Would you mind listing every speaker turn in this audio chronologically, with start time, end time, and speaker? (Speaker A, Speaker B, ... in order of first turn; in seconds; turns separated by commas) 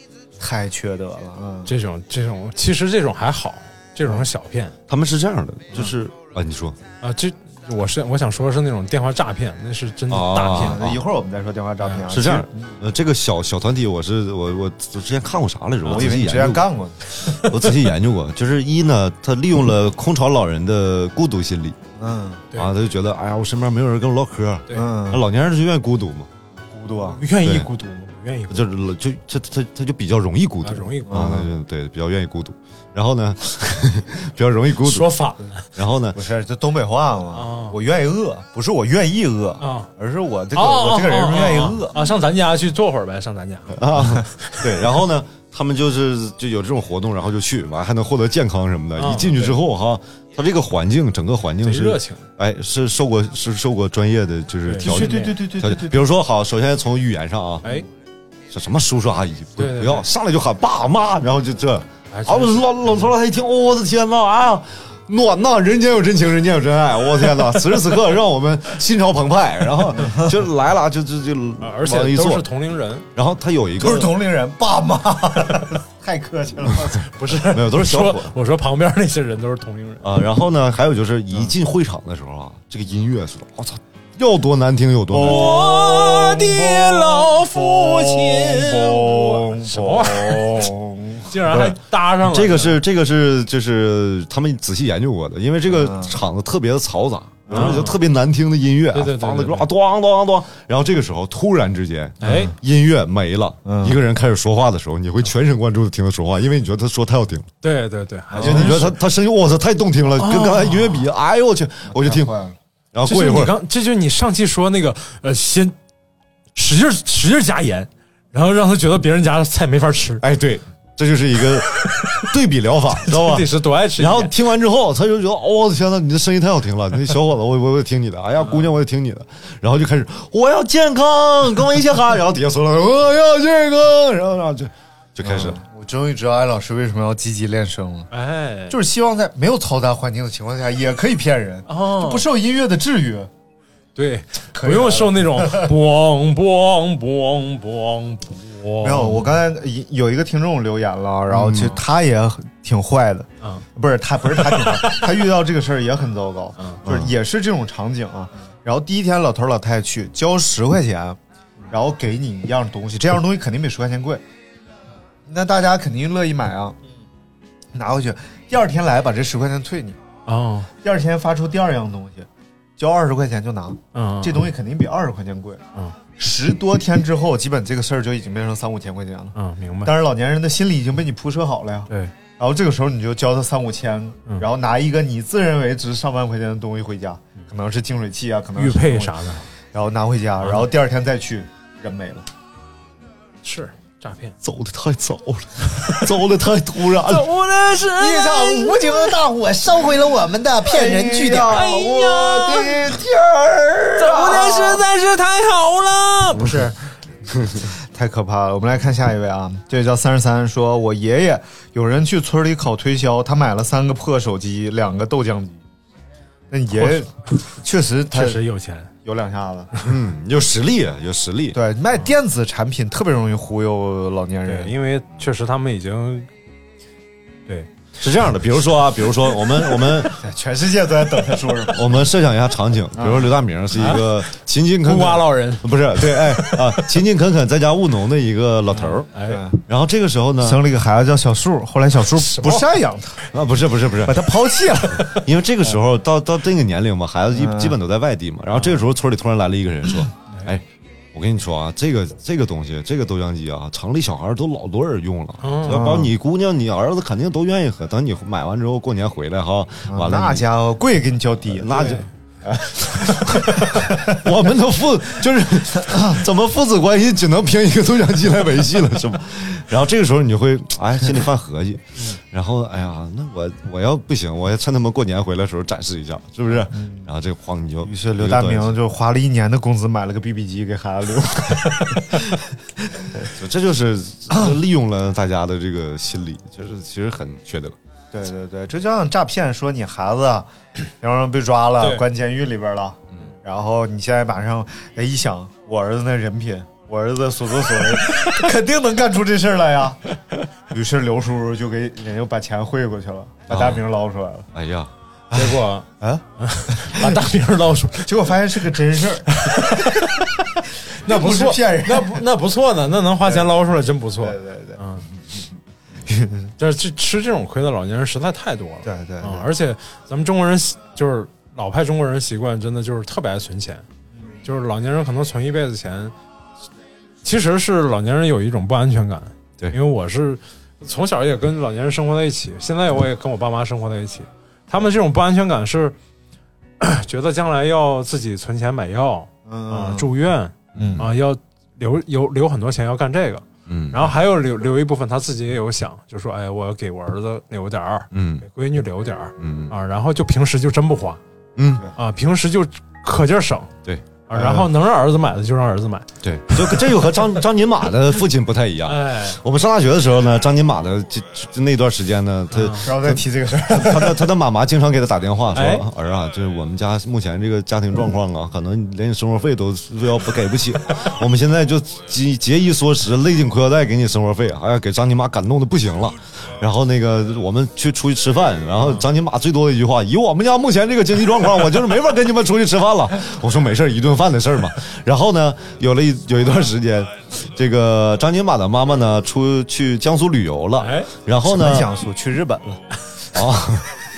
Speaker A: 0.4-1.7, Speaker B: 1.7-4.8, Speaker C: 4.9-6.8, Speaker B: 7.0-10.9, Speaker C: 10.1-11.0, Speaker A: 10.5-12.8, Speaker C: 12.1-16.7, Speaker B: 15.8-16.1, Speaker A: 15.9-17.0, Speaker B: 17.2-17.5, Speaker C: 17.4-21.8, Speaker A: 22.0-22.4, Speaker C: 22.5-26.3, Speaker A: 24.7-25.2, Speaker A: 26.7-27.2, Speaker B: 27.1-28.7, Speaker C: 27.4-27.7, Speaker C: 28.5-35.1, Speaker B: 30.6-31.3, Speaker A: 31.1-31.5, Speaker B: 34.8-35.6, Speaker C: 35.8-36.2, Speaker A: 36.1-42.0, Speaker B: 37.3-37.8, Speaker B: 39.6-39.9, Speaker B: 40.5-44.7, Speaker C: 43.7-57.7, Speaker B: 49.0-49.5, Speaker B: 51.6-52.2, Speaker B: 54.6-55.4, Speaker A: 54.8-56.1, Speaker C: 58.5-72.5, Speaker B: 59.6-60.0, Speaker B: 62.1-62.7, Speaker A: 70.0-70.3, Speaker B: 71.6-73.1, Speaker C: 73.2-74.1, Speaker A: 73.8-77.1, Speaker B: 77.0-80.1, Speaker C: 77.5-78.3, Speaker C: 80.0-85.6, Speaker B: 85.1-92.8, Speaker A: 85.2-91.7, Speaker C: 91.5-107.5, Speaker A: 95.7-96.1, Speaker A: 97.5-97.8, Speaker B: 97.5-98.0, Speaker B: 98.9-99.7, Speaker B: 102.2-102.5, Speaker A: 102.2-102.5, Speaker A: 103.7-104.0, Speaker B: 107.6-109.0, Speaker A: 108.3-108.8, Speaker C: 108.4-112.3, Speaker B: 110.2-111.0, Speaker A: 111.9-112.6, Speaker C: 112.9-113.5, Speaker B: 113.0-115.8, Speaker B: 116.5-120.2, Speaker C: 120.2-135.6, Speaker B: 121.9-122.2, Speaker B: 123.0-124.3, Speaker B: 128.4-128.7, Speaker A: 135.2-138.1, Speaker B: 138.1-138.8, Speaker A: 138.7-143.3, Speaker B: 141.7-142.3, Speaker B: 143.9-149.3, Speaker A: 144.6-145.7, Speaker A: 148.8-161.2, Speaker C: 151.3-151.8, Speaker B: 154.3-155.1, Speaker B: 156.6-156.8, Speaker C: 156.9-157.1, Speaker A: 161.7-164.2, Speaker A: 165.3-166.8, Speaker A: 167.7-170.0, Speaker B: 170.3-170.7, Speaker A: 170.8-175.6, Speaker B: 173.9-174.4, Speaker A: 176.2-189.1, Speaker B: 179.3-179.9, Speaker B: 188.6-189.4, Speaker A: 189.7-192.3, Speaker B: 190.4-190.7, Speaker B: 193.4-194.3, Speaker C: 194.4-197.3, Speaker B: 196.9-199.2, Speaker A: 197.9-203.1, Speaker B: 200.7-202.9, Speaker C: 201.2-204.3, Speaker B: 203.9-206.8, Speaker A: 204.1-204.8, Speaker A: 207.9-215.6, Speaker A: 216.5-218.4, Speaker B: 216.7-217.0, Speaker B: 218.1-218.9, Speaker A: 219.1-219.7, Speaker C: 219.8-221.6, Speaker A: 221.5-224.7, Speaker B: 224.5-226.3, Speaker C: 228.0-230.2, Speaker A: 230.2-232.0, Speaker C: 231.7-239.1, Speaker A: 233.0-233.3, Speaker B: 233.8-234.0, Speaker B: 234.8-236.9, Speaker B: 238.7-239.4, Speaker A: 239.3-239.6, Speaker C: 239.7-240.6, Speaker A: 240.4-243.3, Speaker B: 242.1-242.7, Speaker C: 243.3-244.3, Speaker A: 244.0-245.2, Speaker C: 245.0-260.4, Speaker A: 247.3-247.8, Speaker B: 255.4-256.0, Speaker A: 255.7-256.1, Speaker A: 259.9-264.3, Speaker C: 261.4-262.1, Speaker C: 262.7-278.8, Speaker A: 265.9-266.2, Speaker A: 276.6-277.1, Speaker A: 277.8-283.3, Speaker C: 283.3-287.8, Speaker A: 288.1-290.5, Speaker A: 291.0-300.0, Speaker A: 300.7-304.5, Speaker C: 303.5-303.8, Speaker C: 304.5-304.9, Speaker A: 305.3-307.2, Speaker B: 305.3-305.9, Speaker B: 306.4-308.7, Speaker A: 308.1-310.1, Speaker B: 309.3-310.3, Speaker A: 311.0-312.2, Speaker B: 311.0-315.1, Speaker A: 313.3-313.5, Speaker A: 314.2-314.8, Speaker A: 316.1-316.5, Speaker B: 316.6-323.9, Speaker A: 318.8-319.5, Speaker B: 324.4-326.1, Speaker B: 327.2-336.0, Speaker B: 336.8-351.2, Speaker A: 339.5-340.1, Speaker C: 340.8-341.1, Speaker A: 340.8-341.1, Speaker C: 343.7-344.1, Speaker C: 348.1-348.5, Speaker C: 349.4-349.7, Speaker C: 351.6-351.9, Speaker B: 352.0-353.7, Speaker B: 354.3-356.8, Speaker A: 354.3-354.7, Speaker C: 356.2-391.9, Speaker B: 358.9-359.4, Speaker B: 362.5-362.9, Speaker A: 362.8-364.3, Speaker B: 365.5-365.9, Speaker B: 390.8-391.1, Speaker A: 391.5-392.8, Speaker C: 393.3-393.9